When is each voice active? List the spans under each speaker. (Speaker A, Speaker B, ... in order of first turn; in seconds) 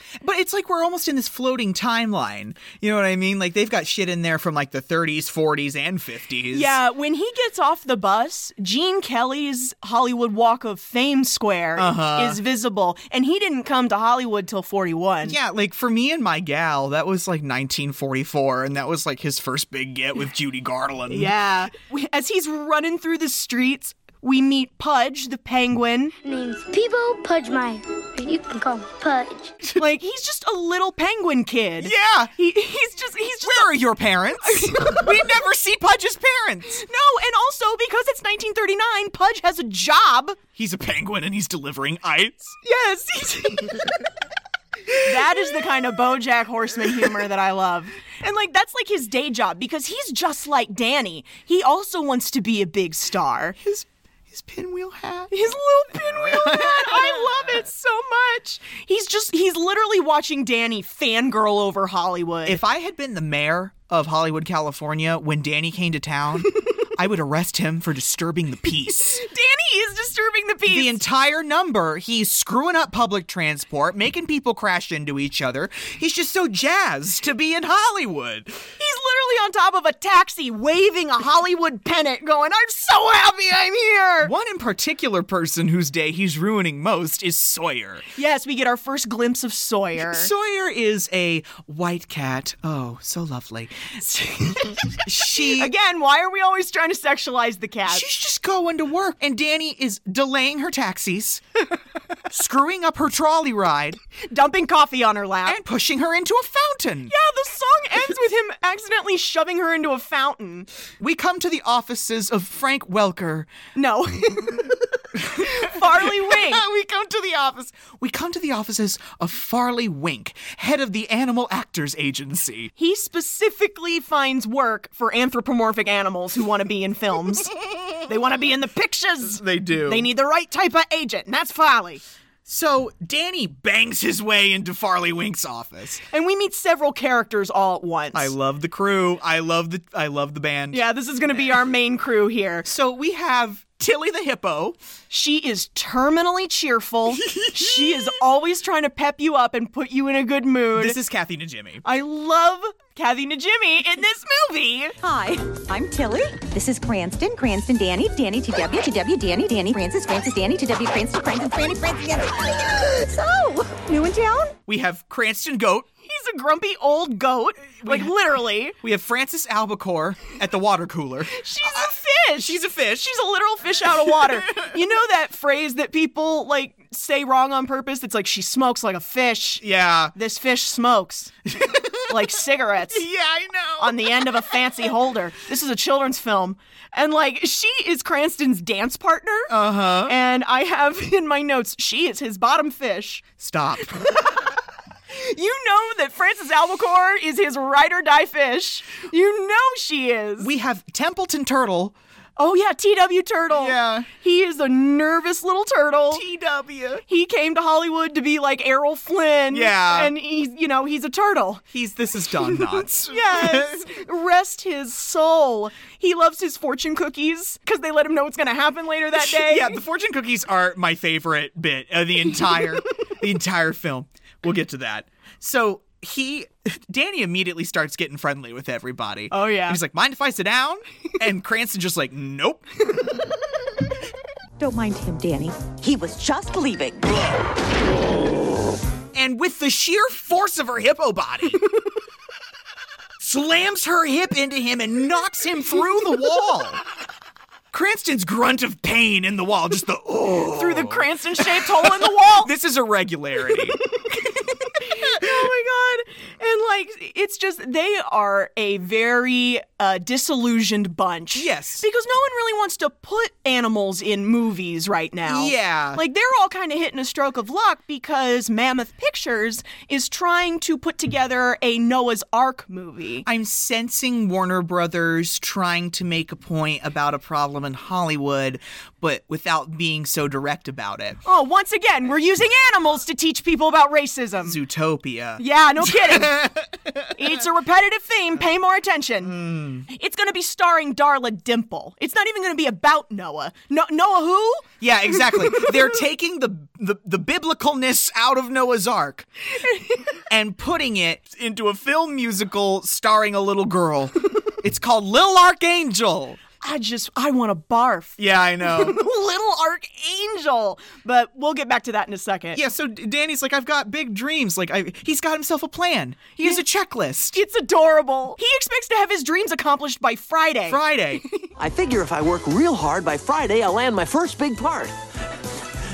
Speaker A: 0.2-6.8, 11.8-12.4, 15.2-21.3, 31.8-32.3, 33.4-36.8, 40.6-42.6, 45.2-45.4, 53.6-55.3, 56.1-57.3, 62.5-69.2, 70.7-78.7, 84.2-88.1, 90.0-94.0, 95.0-95.7, 97.9-101.4, 102.3-104.0, 105.5-107.1, 111.0-113.5, 115.2-122.7, 129.2-130.1, 132.4-136.0, 138.1-140.8, 142.6-144.8, 147.2-148.1, 150.7-151.8, 164.7-165.9, 167.8-168.2, 168.8-173.1, 173.9-174.8, 179.6-180.1, 181.5-182.2, 182.9-184.6, 189.5-190.2, 193.4-194.2, 200.4-202.0, 203.5-204.1, 206.1-207.0, 209.5-210.1, 211.7-213.9, 219.2-232.7, 239.1-241.7, 243.2-246.8, 247.7-253.8, 255.0-255.3, 261.3-261.8, 265.3-266.0, 273.2-281.2, 284.4-287.1, 289.2-289.9, 294.8-299.3, 300.3-306.4, 308.2-309.0, 312.5-317.4, 320.7-321.2
Speaker B: 6.5-15.4, 21.1-26.1, 29.8-33.7, 34.4-35.2, 36.8-40.4, 42.6-43.9, 45.0-53.6, 55.3-62.6, 68.9-71.0, 78.8-84.3, 88.2-90.3, 94.1-98.1, 104.3-105.6, 107.1-110.7, 113.8-116.6, 122.8-132.0, 136.1-138.3, 140.7-142.7, 145.1-151.0, 151.8-154.9, 166.1-168.8, 171.3-181.3, 182.0-183.1, 183.8-193.2, 195.1-200.5, 202.4-206.2, 207.1-211.6, 212.4-219.8, 229.3-229.8, 250.5-252.5, 254.0-273.3, 281.2-284.6, 285.4-286.6, 287.1-294.7, 295.3-295.7, 306.6-312.6, 316.4-316.6, 317.3-321.5
Speaker C: 26.2-29.6
Speaker D: 155.0-164.6, 234.6-237.3
Speaker E: 321.6-325.0